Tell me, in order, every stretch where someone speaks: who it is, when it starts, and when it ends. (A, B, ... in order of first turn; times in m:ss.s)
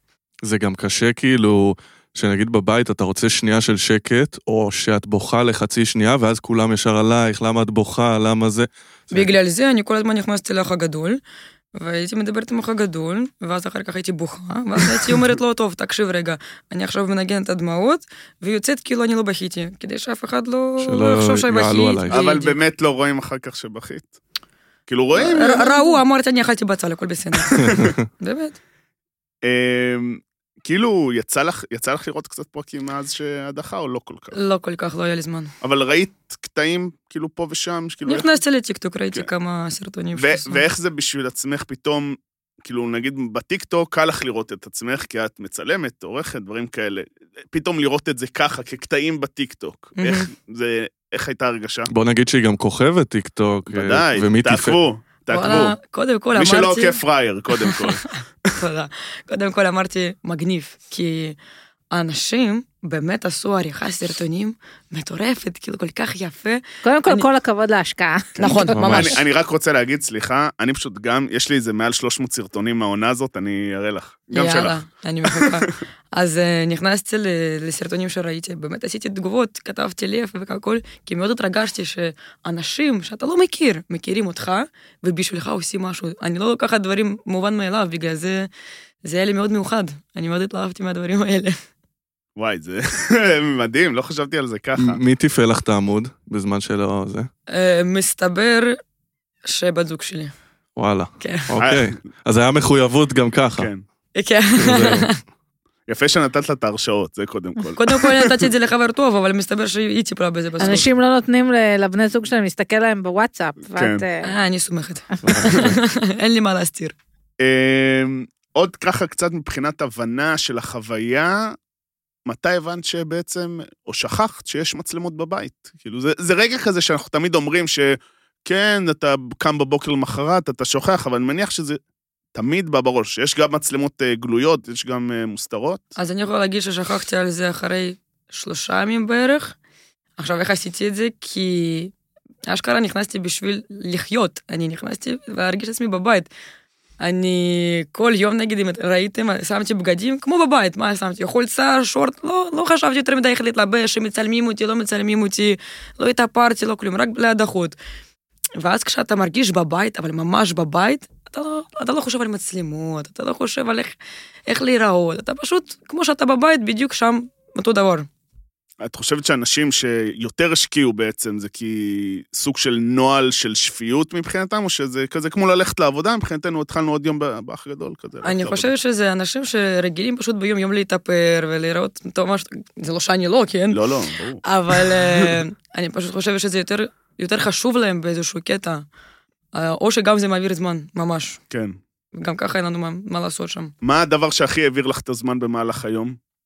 0:00.4-0:09.3 A
0:09.1-0:11.2 B
0:11.8-0:22.6 B
0:20.8-0:22.2 A
0:22.1-0:24.1 C
0:24.9-0:26.0 C
0:25.1-0:28.6 B
0:27.4-0:27.9 C
0:27.6-0:28.0 A
0:29.4-0:34.4 C
0:34.3-0:35.5 B
0:35.6-0:38.4 C
0:38.0-0:40.6 B
0:40.2-0:51.9 C
0:50.0-0:50.3 B
0:51.9-0:54.8 A
0:53.7-0:55.8 C
0:55.3-0:57.0 B
0:56.4-0:58.5 C
0:57.7-1:01.4 B
1:01.9-1:07.3 B
1:06.8-1:09.1 D
1:08.4-1:15.5 C
1:08.4-1:09.2 B
1:08.7-1:09.2 A
1:14.3-1:28.5 B
1:29.0-1:31.6 B
1:32.4-1:35.0 C
1:34.8-1:37.3 A
1:37.5-1:38.8 B
1:39.4-1:40.3 B
1:40.8-1:43.7 A
1:41.2-1:41.5 B
1:41.6-1:42.0 C
1:43.6-1:43.8 C
1:44.2-1:45.2 B
1:44.6-1:45.1 A
1:45.9-1:48.5 C
1:47.8-1:50.9 B
1:50.6-1:54.3 D
1:53.7-1:54.0 C
1:54.2-1:57.0 B
1:55.2-1:55.8 A
1:57.4-2:01.6 C
2:02.3-2:11.8 C
2:12.4-2:15.9 C
2:16.0-2:19.6 B
2:20.2-2:21.9 B
2:22.5-2:26.3 B
2:27.0-2:37.8 B
2:38.6-2:44.0 B
2:44.5-2:48.1 B
2:48.8-2:58.7 C
2:58.2-3:03.8 B
3:03.7-3:05.0 C
3:04.4-3:08.8 B
3:09.5-3:11.4 B
3:11.5-3:11.8 C
3:12.1-3:13.7 B
3:13.8-3:16.2 C